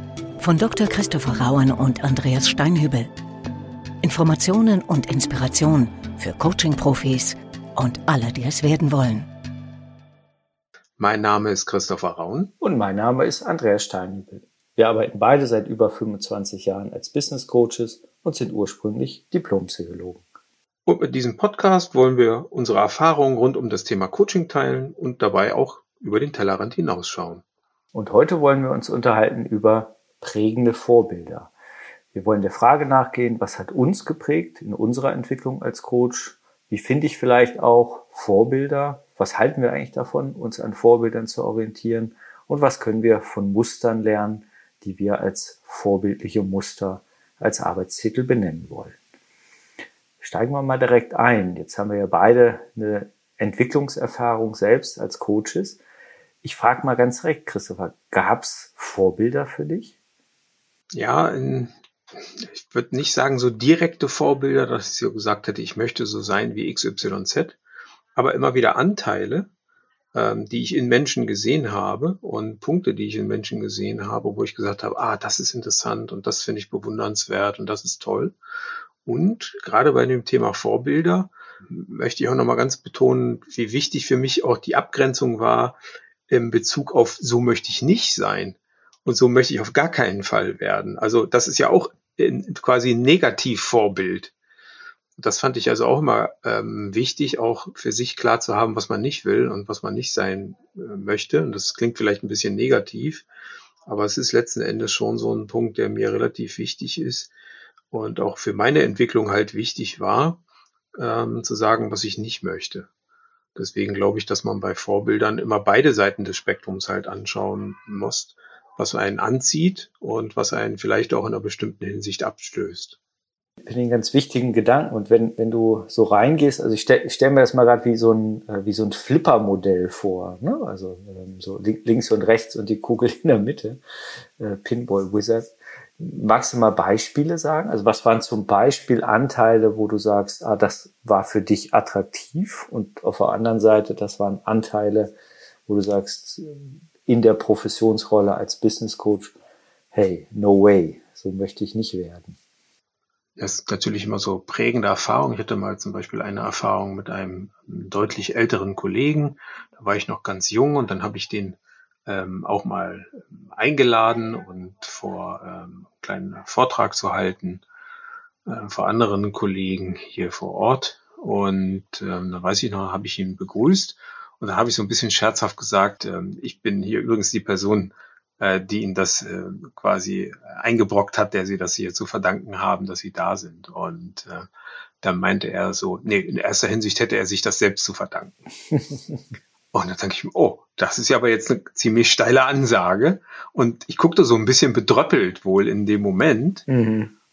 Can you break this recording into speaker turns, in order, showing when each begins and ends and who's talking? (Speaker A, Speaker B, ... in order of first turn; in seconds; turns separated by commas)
Speaker A: 0.4-3.1, Speaker A: 4.0-9.3, Speaker B: 11.0-12.5, Speaker C: 12.6-20.2, Speaker B: 20.9-27.4, Speaker C: 27.9-31.5, Speaker C: 32.1-49.0, Speaker C: 50.2-55.8, Speaker C: 56.4-59.9, Speaker B: 60.9-67.6, Speaker B: 68.2-69.5, Speaker B: 70.1-78.3, Speaker B: 79.0-85.8, Speaker B: 86.3-94.3, Speaker B: 95.2-103.3, Speaker B: 103.9-107.3, Speaker B: 107.9-110.4, Speaker B: 111.0-112.9, Speaker B: 113.6-123.0, Speaker C: 123.7-133.8, Speaker C: 134.4-145.1, Speaker C: 145.7-149.3, Speaker C: 149.9-152.4, Speaker B: 153.4-167.6, Speaker B: 168.5-184.5, Speaker B: 185.0-188.3, Speaker B: 189.7-196.7, Speaker C: 196.7-197.1